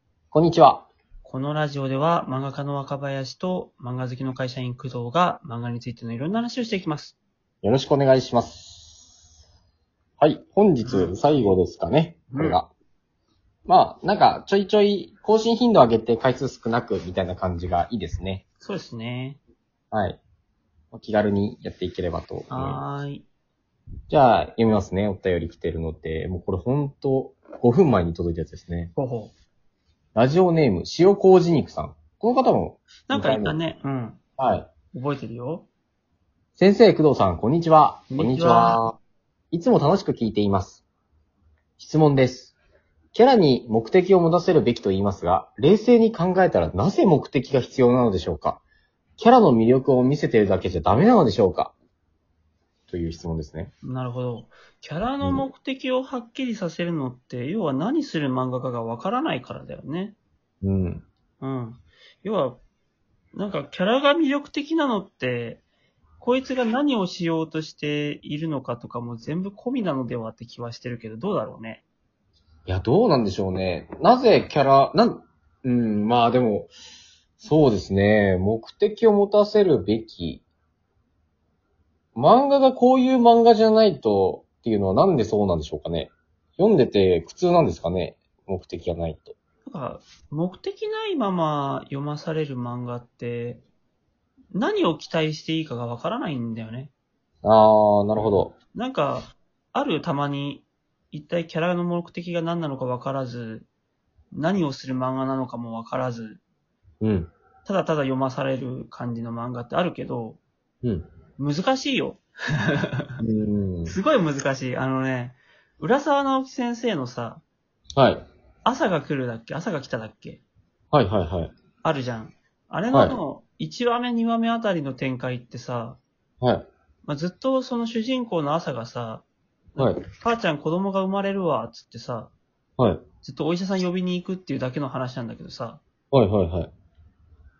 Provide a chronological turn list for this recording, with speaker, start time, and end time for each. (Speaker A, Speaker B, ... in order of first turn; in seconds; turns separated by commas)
Speaker A: 0.3-0.9, Speaker B: 1.2-7.2, Speaker A: 7.6-9.1, Speaker A: 10.2-12.7, Speaker B: 10.8-11.2, Speaker B: 12.3-12.6, Speaker A: 13.7-18.4, Speaker B: 18.6-19.4, Speaker A: 19.9-20.2, Speaker A: 20.9-22.8, Speaker B: 22.5-23.2, Speaker A: 24.1-28.9, Speaker B: 28.9-29.3, Speaker A: 30.1-33.6, Speaker B: 33.1-34.2, Speaker A: 34.4-34.7, Speaker B: 34.9-35.7, Speaker A: 36.5-39.0, Speaker B: 38.1-38.8, Speaker A: 39.5-40.8, Speaker A: 41.8-42.5, Speaker A: 43.1-48.6, Speaker A: 49.2-51.7, Speaker A: 52.9-53.7, Speaker B: 53.8-60.1, Speaker A: 60.6-61.0, Speaker B: 61.4-62.6, Speaker B: 63.3-65.6, Speaker B: 66.2-71.8, Speaker A: 72.7-76.7, Speaker A: 77.4-80.4, Speaker A: 82.1-89.3, Speaker B: 89.6-93.6, Speaker B: 94.5-96.9, Speaker A: 97.4-98.5, Speaker B: 98.7-103.7, Speaker B: 104.3-106.4, Speaker A: 107.0-107.3, Speaker B: 107.7-110.4, Speaker B: 111.4-113.1, Speaker A: 113.2-114.0, Speaker B: 113.9-117.4, Speaker A: 118.0-118.2, Speaker B: 118.6-120.4, Speaker A: 120.9-121.5, Speaker B: 121.8-126.0, Speaker A: 122.9-123.2, Speaker A: 126.4-126.7, Speaker B: 127.0-129.2, Speaker B: 129.8-132.3, Speaker B: 133.2-135.8, Speaker A: 136.1-136.7